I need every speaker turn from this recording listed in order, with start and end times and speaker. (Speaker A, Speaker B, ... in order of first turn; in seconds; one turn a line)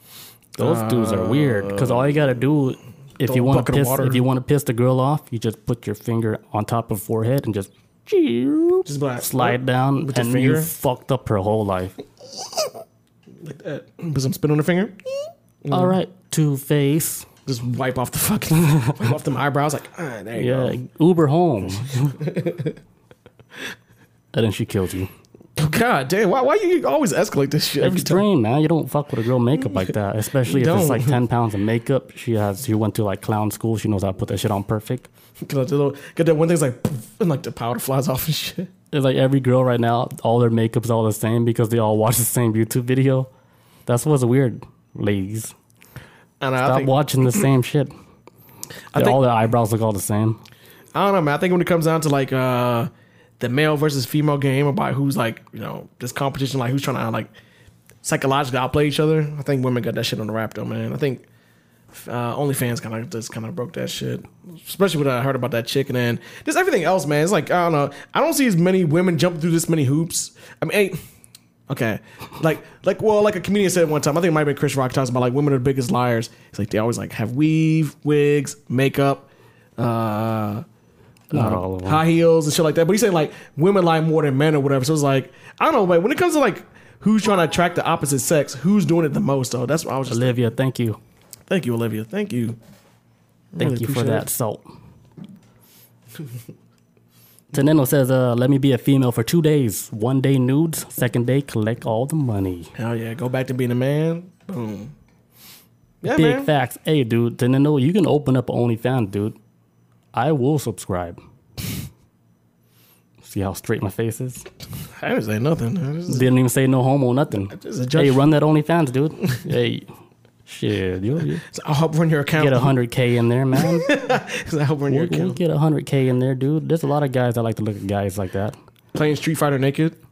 Speaker A: 0.6-2.2
Speaker B: 0.6-12.0
Speaker A: 3.2-4.2
Speaker A: 8.9-10.7
Speaker A: 13.4-15.0
Speaker A: 15.6-16.0
Speaker B: 15.7-17.3
Speaker A: 17.5-20.8
Speaker B: 18.7-19.0
Speaker B: 20.4-22.2
Speaker A: 22.1-22.8
Speaker B: 24.3-25.1
Speaker A: 25.6-28.2
Speaker B: 27.8-35.1
Speaker A: 30.4-31.2
Speaker A: 35.4-38.7
Speaker B: 38.9-43.3
Speaker B: 43.9-45.5
Speaker A: 46.4-47.5
Speaker B: 46.6-47.9
Speaker A: 48.9-49.2
Speaker B: 49.0-50.4
Speaker A: 51.0-57.3
Speaker A: 58.0-61.2
Speaker A: 61.9-71.0
Speaker A: 71.7-80.7
Speaker B: 81.3-82.0
Speaker A: 81.3-90.4
Speaker B: 90.1-91.0
Speaker A: 91.5-92.6
Speaker A: 93.5-94.3
Speaker B: 93.6-94.7
Speaker B: 97.5-102.7
Speaker A: 102.8-104.9
Speaker A: 106.0-106.5
Speaker B: 106.1-109.4
Speaker B: 110.1-111.2
Speaker B: 113.2-114.5
Speaker A: 115.0-116.3
Speaker B: 116.1-119.9
Speaker A: 117.5-118.3
Speaker B: 120.5-121.4
Speaker A: 121.5-122.7
Speaker B: 122.4-123.9
Speaker A: 123.5-125.4
Speaker B: 124.9-128.6
Speaker A: 128.9-130.0